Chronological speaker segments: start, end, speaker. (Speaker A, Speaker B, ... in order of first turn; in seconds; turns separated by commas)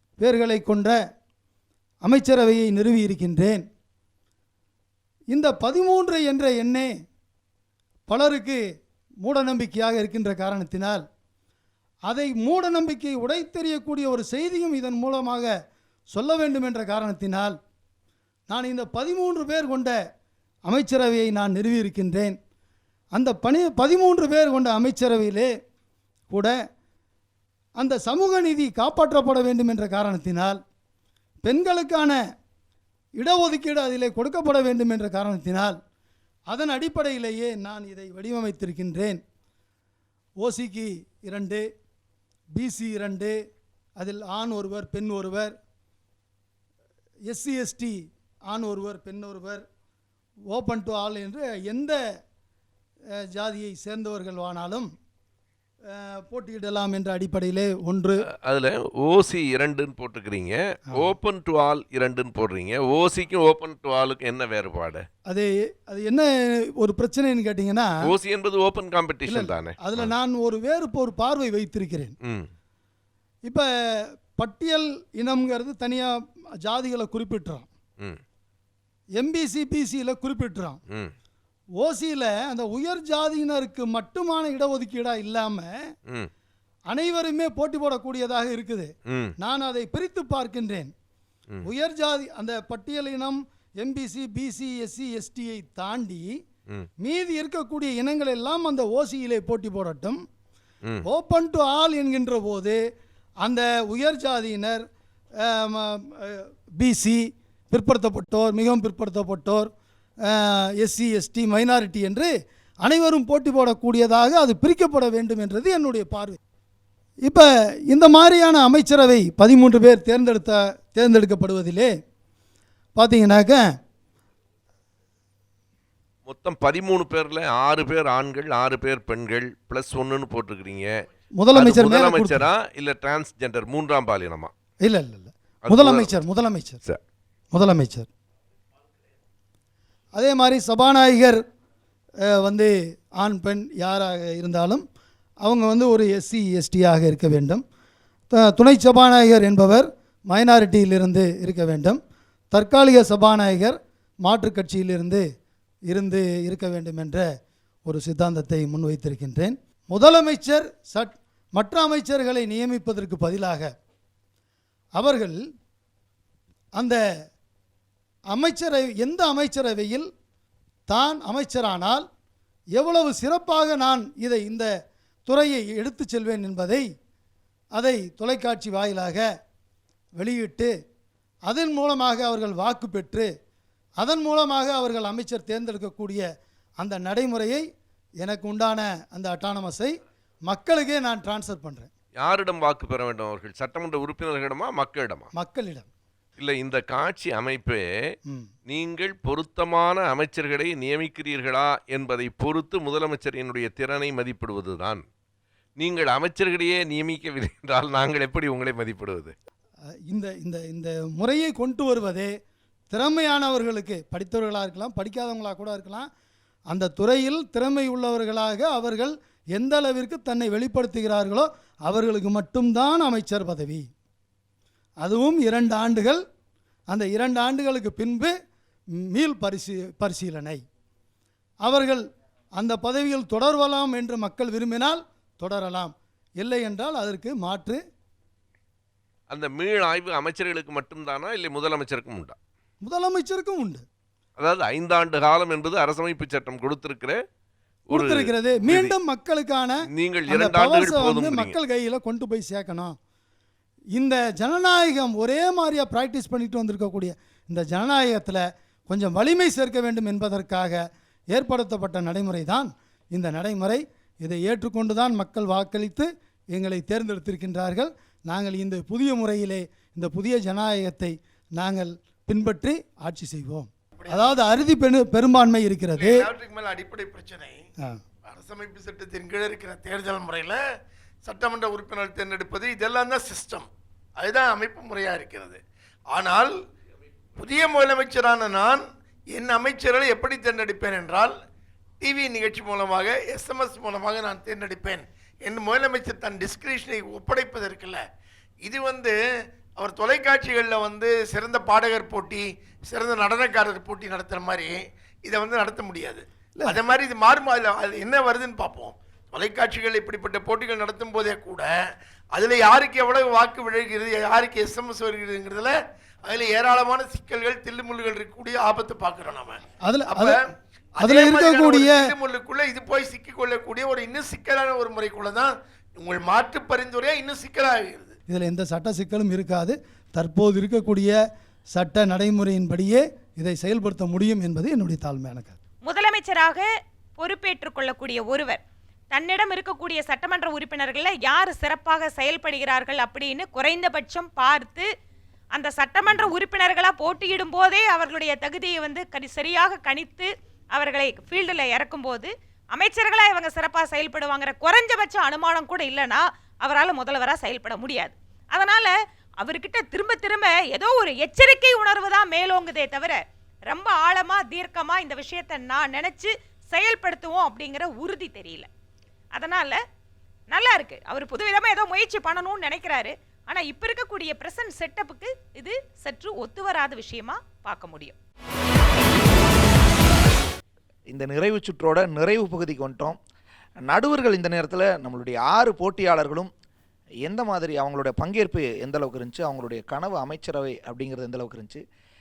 Speaker A: 0.2-1.0, Speaker A: 2.0-3.6, Speaker A: 5.3-6.9, Speaker A: 8.1-8.6, Speaker A: 9.2-11.0, Speaker A: 12.1-15.5, Speaker A: 16.1-17.6, Speaker A: 18.5-20.0, Speaker A: 20.7-22.4, Speaker A: 23.1-25.5, Speaker A: 27.8-30.6, Speaker A: 31.4-32.2, Speaker A: 33.2-35.8, Speaker A: 36.5-39.2, Speaker A: 40.4-41.6, Speaker A: 42.5-43.4, Speaker A: 44.0-45.5, Speaker A: 47.3-48.0, Speaker A: 48.5-49.6, Speaker A: 50.5-52.0, Speaker A: 53.2-54.9, Speaker A: 55.9-58.2, Speaker B: 58.4-65.0, Speaker A: 65.3-68.0, Speaker B: 68.1-70.1, Speaker A: 69.3-72.2, Speaker B: 72.2-72.5, Speaker A: 74.4-77.7, Speaker A: 79.2-80.8, Speaker A: 81.8-85.7, Speaker A: 86.9-90.9, Speaker A: 91.7-96.3, Speaker A: 97.0-100.2, Speaker A: 101.0-102.8, Speaker A: 103.4-104.8, Speaker A: 105.4-109.7, Speaker A: 110.3-112.3, Speaker A: 112.8-116.4, Speaker A: 117.3-121.9, Speaker A: 123.0-123.7, Speaker B: 126.3-130.9, Speaker A: 131.4-132.5, Speaker B: 131.6-134.5, Speaker A: 134.8-136.8, Speaker B: 135.7-136.2, Speaker A: 137.5-138.1, Speaker A: 140.1-141.4, Speaker A: 142.3-144.8, Speaker A: 145.4-147.6, Speaker A: 148.3-152.0, Speaker A: 152.5-155.2, Speaker A: 155.9-157.3, Speaker A: 157.9-163.7, Speaker A: 165.0-165.4, Speaker A: 168.3-170.1, Speaker A: 170.9-172.1, Speaker A: 172.8-174.7, Speaker A: 175.3-176.8, Speaker A: 177.8-179.3, Speaker A: 180.2-180.7, Speaker A: 181.5-183.3, Speaker A: 184.0-186.2, Speaker A: 186.8-187.6, Speaker A: 188.2-189.9, Speaker A: 190.5-191.9, Speaker B: 192.2-195.3, Speaker A: 195.3-195.9, Speaker B: 196.4-197.8, Speaker B: 198.7-205.0, Speaker B: 205.8-209.3, Speaker A: 210.1-212.3, Speaker A: 212.9-216.1, Speaker A: 216.7-223.9, Speaker A: 225.0-226.2, Speaker A: 226.9-228.3, Speaker A: 229.1-230.6, Speaker A: 231.6-232.0, Speaker A: 232.6-237.8, Speaker B: 239.3-242.4, Speaker A: 242.8-243.8, Speaker B: 244.4-247.2, Speaker B: 247.9-248.9, Speaker A: 247.9-253.0, Speaker B: 249.9-251.6, Speaker A: 253.9-260.8, Speaker A: 261.3-276.2, Speaker C: 274.0-274.4, Speaker C: 276.0-277.6, Speaker C: 278.2-280.6, Speaker C: 281.2-285.6, Speaker C: 286.1-286.5, Speaker C: 287.4-291.3, Speaker C: 292.0-298.0, Speaker C: 298.6-299.2, Speaker C: 299.8-311.7, Speaker C: 312.3-320.4, Speaker A: 319.8-320.4, Speaker C: 321.0-328.2, Speaker A: 321.0-322.0, Speaker A: 328.3-331.2, Speaker A: 331.7-335.6, Speaker D: 335.8-336.6, Speaker D: 337.2-344.9, Speaker D: 345.5-368.7, Speaker D: 369.3-369.8, Speaker D: 370.5-378.2, Speaker E: 381.1-383.2, Speaker E: 383.9-386.5, Speaker E: 387.2-391.8